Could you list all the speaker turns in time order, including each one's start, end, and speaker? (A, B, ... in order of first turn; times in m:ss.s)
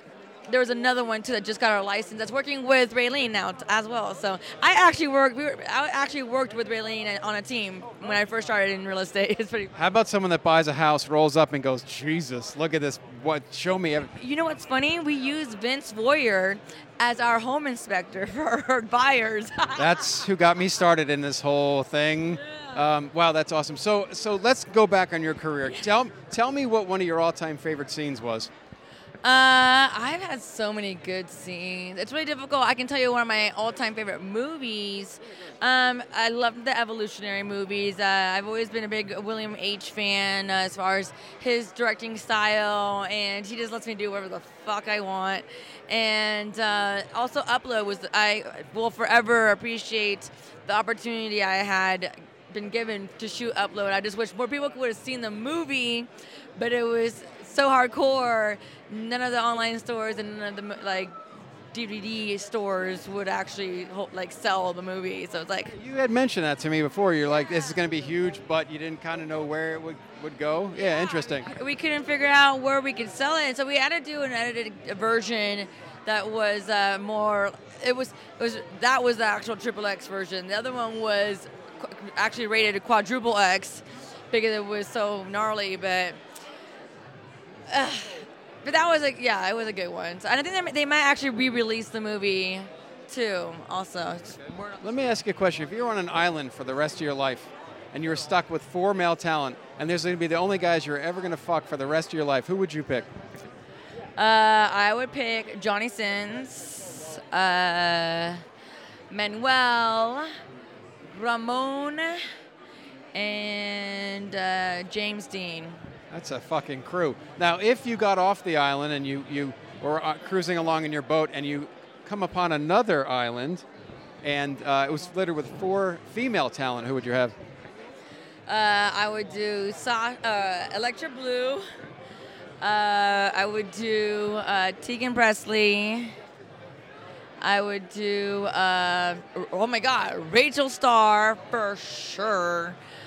0:00.5-0:09.7 A
0:09.8-0:14.1 B
0:14.2-0:20.2 A
0:19.8-0:28.5 B
0:22.4-0:22.8 A
0:29.2-1:01.2 A
1:01.7-1:05.7 A
1:05.6-1:11.5 B
1:10.8-1:26.2 A
1:27.7-1:34.4 A
1:34.8-1:43.1 B
1:44.2-1:48.4 A
1:49.1-1:50.3 A
1:51.1-1:52.2 A
1:53.1-1:55.8 A
1:56.1-2:03.6 B
2:04.2-2:07.3 B
2:08.5-2:11.6 A
2:12.6-2:16.1 A
2:17.4-2:22.8 A